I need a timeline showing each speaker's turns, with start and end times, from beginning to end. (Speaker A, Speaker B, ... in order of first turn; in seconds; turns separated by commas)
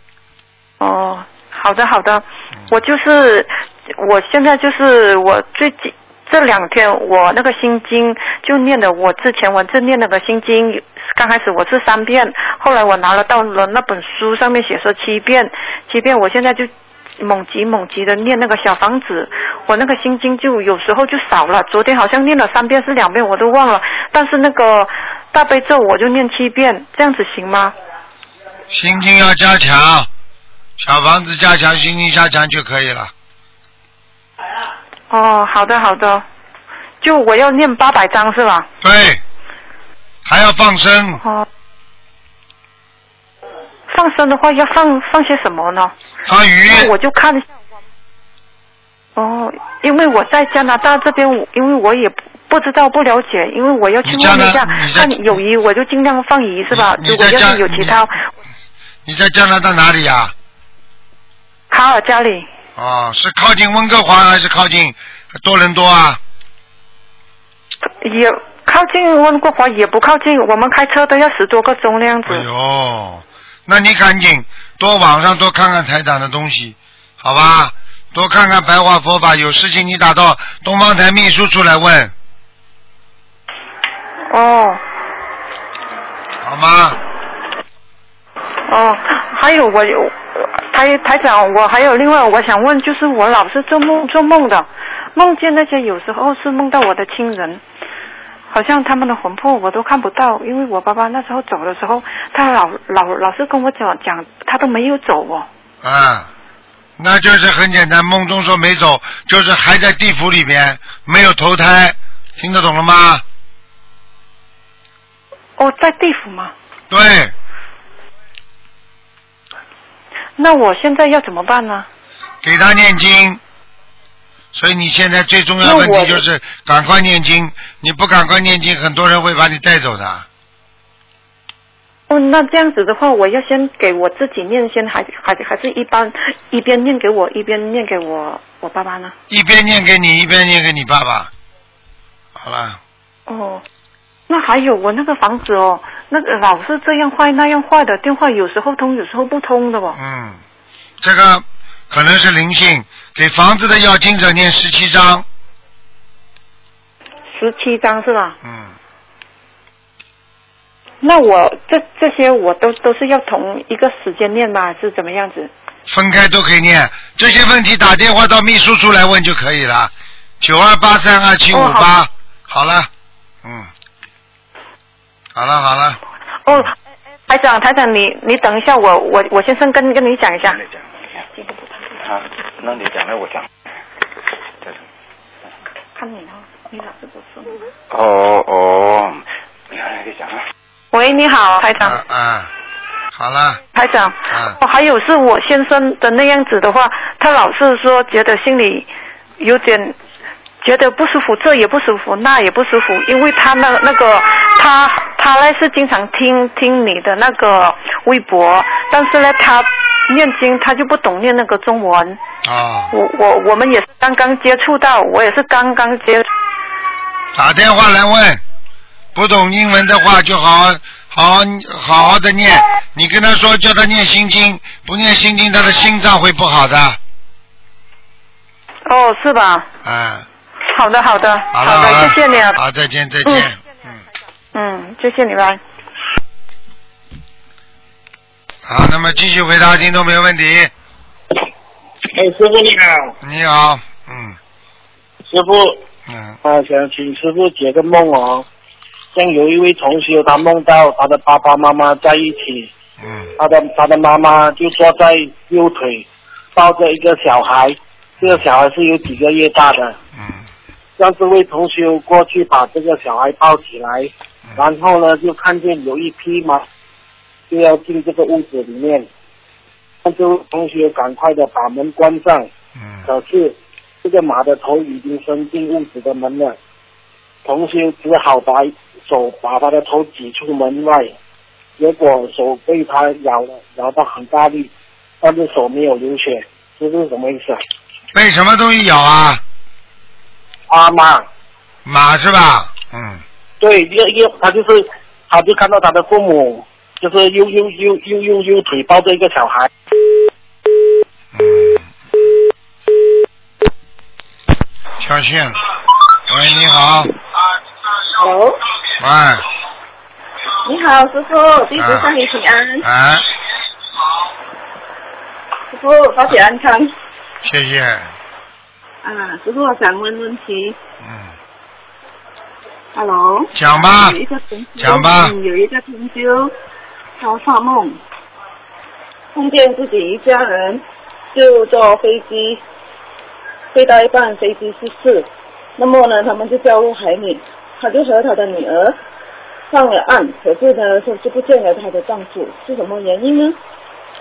Speaker A: 0.8-27.8, Speaker B: 28.7-30.1, Speaker B: 30.8-33.1, Speaker A: 35.1-36.2, Speaker A: 37.0-38.7, Speaker B: 38.8-39.2, Speaker B: 40.2-41.2, Speaker A: 43.9-45.9, Speaker B: 46.3-46.9, Speaker A: 46.7-47.5, Speaker A: 49.2-58.2, Speaker B: 54.0-55.4, Speaker B: 56.7-58.0, Speaker B: 59.0-60.3, Speaker A: 61.7-62.5, Speaker B: 62.8-66.2, Speaker A: 68.0-72.5, Speaker B: 72.3-82.1, Speaker A: 84.3-84.8, Speaker B: 86.4-87.0, Speaker A: 88.7-97.6, Speaker A: 98.5-105.5, Speaker B: 105.8-106.3, Speaker B: 107.0-113.2, Speaker A: 115.6-116.5, Speaker B: 116.9-117.3, Speaker A: 120.4-121.9, Speaker B: 122.4-123.4, Speaker B: 124.5-130.3, Speaker A: 125.6-126.2, Speaker A: 132.1-139.2, Speaker B: 139.3-141.3, Speaker B: 142.3-142.8, Speaker A: 143.3-143.6, Speaker A: 144.3-150.0, Speaker B: 150.0-150.4, Speaker B: 151.0-155.2, Speaker A: 157.3-158.4, Speaker B: 158.4-158.8, Speaker A: 161.0-165.5, Speaker B: 165.9-172.9, Speaker A: 171.5-171.9, Speaker B: 173.4-173.7, Speaker B: 175.3-176.7, Speaker A: 177.3-180.6, Speaker C: 180.6-181.0, Speaker A: 181.4-181.7, Speaker C: 182.0-183.5, Speaker A: 186.0-187.6, Speaker C: 187.9-190.4, Speaker A: 190.9-192.0, Speaker B: 191.8-192.5, Speaker B: 193.1-193.6, Speaker A: 193.7-199.9, Speaker B: 194.3-194.6, Speaker A: 200.6-212.2, Speaker B: 212.4-212.9, Speaker A: 212.9-216.3, Speaker B: 217.3-218.4, Speaker B: 219.2-227.0, Speaker A: 228.9-229.7, Speaker B: 229.8-230.3, Speaker A: 230.7-232.6, Speaker B: 231.5-234.0, Speaker A: 234.5-235.6, Speaker B: 238.7-240.7, Speaker D: 242.3-242.8, Speaker B: 243.2-244.4, Speaker D: 245.3-245.6, Speaker B: 246.1-246.4, Speaker D: 246.4-248.5, Speaker D: 249.1-252.7, Speaker B: 253.0-253.3, Speaker D: 253.4-260.0, Speaker B: 260.2-260.4, Speaker D: 261.0-266.6, Speaker D: 267.5-269.1, Speaker D: 270.0-272.5, Speaker B: 272.8-273.0, Speaker D: 273.1-276.6, Speaker D: 277.4-281.1, Speaker D: 281.8-284.7, Speaker D: 285.2-287.6, Speaker B: 288.1-289.4, Speaker D: 290.7-291.3, Speaker B: 291.9-293.2, Speaker D: 293.6-299.7, Speaker B: 301.3-301.9, Speaker B: 305.0-305.6, Speaker B: 306.3-307.1, Speaker E: 308.2-308.6, Speaker B: 309.0-309.4, Speaker E: 310.6-312.9, Speaker B: 311.8-312.1, Speaker B: 312.8-313.2, Speaker E: 315.7-316.9, Speaker B: 317.4-318.1, Speaker E: 319.0-320.8, Speaker B: 321.0-321.3, Speaker E: 322.9-326.5, Speaker B: 323.5-324.2, Speaker B: 324.8-325.4, Speaker E: 327.2-328.0, Speaker E: 329.3-330.8, Speaker E: 331.3-332.6, Speaker E: 333.7-339.0, Speaker E: 339.7-343.6